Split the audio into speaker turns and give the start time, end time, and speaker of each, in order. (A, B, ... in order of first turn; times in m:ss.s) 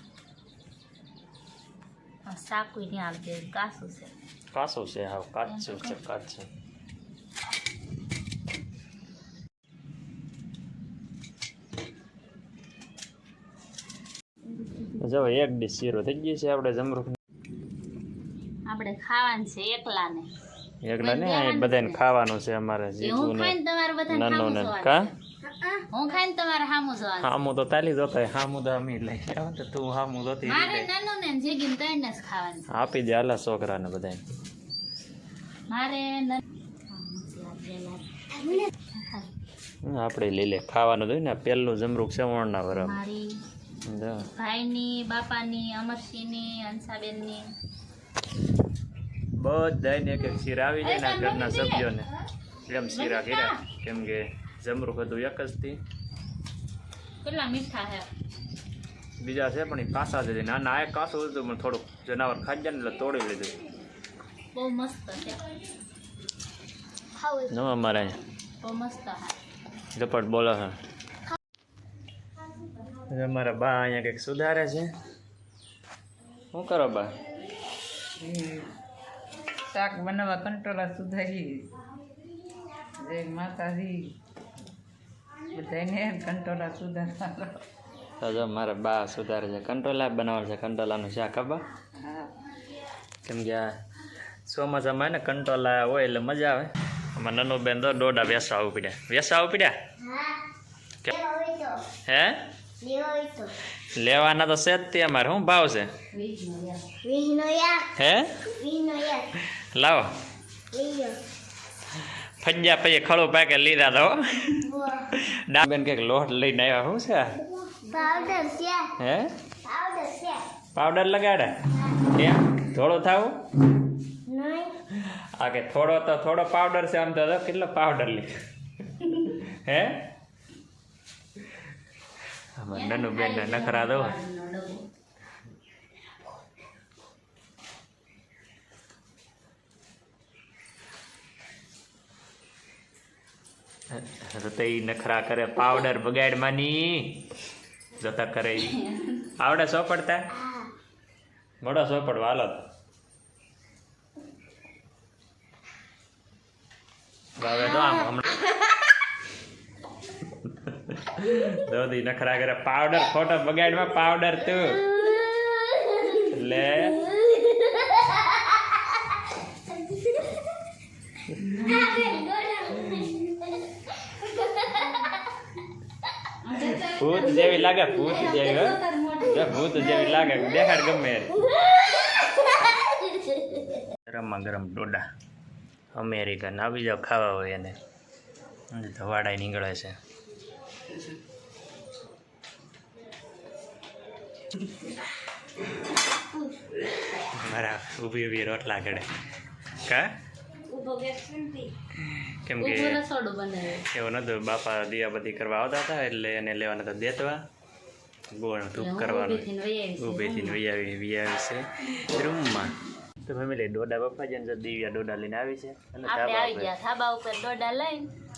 0:02.3-0:04.1 A
0:04.5-0:06.5 B
0:05.5-0:06.0 A
0:15.0-0:17.2 B
0:18.7-0:20.3 A
0:20.8-0:23.6 B
0:21.0-0:22.0 A
0:23.0-0:25.1 A
0:24.1-0:25.1 B
0:25.5-0:25.9 C
0:25.9-0:27.4 A
0:27.2-0:30.9 B
0:30.4-0:32.7 A
0:32.7-0:34.2 B
0:35.7-0:39.3 A
0:39.8-0:43.0 B
0:42.7-0:43.4 A
0:43.8-0:44.3 B
0:44.4-0:47.5 A
0:49.4-0:52.1 B
0:50.8-0:51.9 A
0:52.7-0:55.8 B
0:52.9-0:53.6 A
0:57.2-0:58.1 A
0:59.2-1:03.6 B
1:04.5-1:05.5 A
1:07.2-1:07.5 C
1:07.5-1:08.2 B
1:08.6-1:09.3 A
1:09.9-1:10.8 B
1:13.1-1:14.9 B
1:16.5-1:17.1 B
1:18.2-1:18.7 D
1:19.7-1:21.8 D
1:23.0-1:24.2 D
1:25.5-1:27.6 D
1:28.2-1:31.6 B
1:33.2-1:33.7 B
1:34.5-1:39.7 B
1:40.0-1:40.4 C
1:41.1-1:41.8 C
1:42.1-1:42.4 B
1:42.8-1:43.5 C
1:44.0-1:45.9 B
1:46.1-1:46.8 A
1:47.0-1:47.9 C
1:48.0-1:48.5 B
1:48.6-1:49.3 C
1:49.5-1:50.1 B
1:50.7-1:51.2 C
1:52.4-1:57.4 B
1:54.6-1:55.1 C
1:57.8-1:58.9 C
1:59.0-1:59.3 B
1:59.6-2:00.4 C
2:00.7-2:03.4 B
2:04.3-2:04.8 C
2:05.4-2:08.3 B
2:09.0-2:10.0 B
2:12.6-2:14.2 B
2:12.7-2:14.8 A
2:23.9-2:27.2 B
2:28.0-2:28.8 B
2:28.7-2:29.2 A
2:29.4-2:30.3 B
2:31.6-2:32.6 B
2:37.4-2:38.4 B
2:40.4-2:44.9 B
2:46.2-2:47.0 B
2:47.4-2:48.0 C
2:49.9-2:50.4 C
2:51.4-2:53.1 A
2:51.9-2:53.0 C
2:56.4-3:00.3 A
2:56.8-3:01.4 B
3:04.1-3:05.0 B
3:05.9-3:07.8 B
3:08.7-3:10.0 B
3:17.2-3:19.1 B
3:19.8-3:20.1 B
3:20.7-3:21.7 C
3:22.0-3:23.0 B
3:22.6-3:23.9 A
3:23.9-3:27.4 B
3:28.3-3:29.5 B
3:28.8-3:30.6 A
3:30.0-3:32.7 B
3:33.2-3:36.7 B
3:36.1-3:38.1 A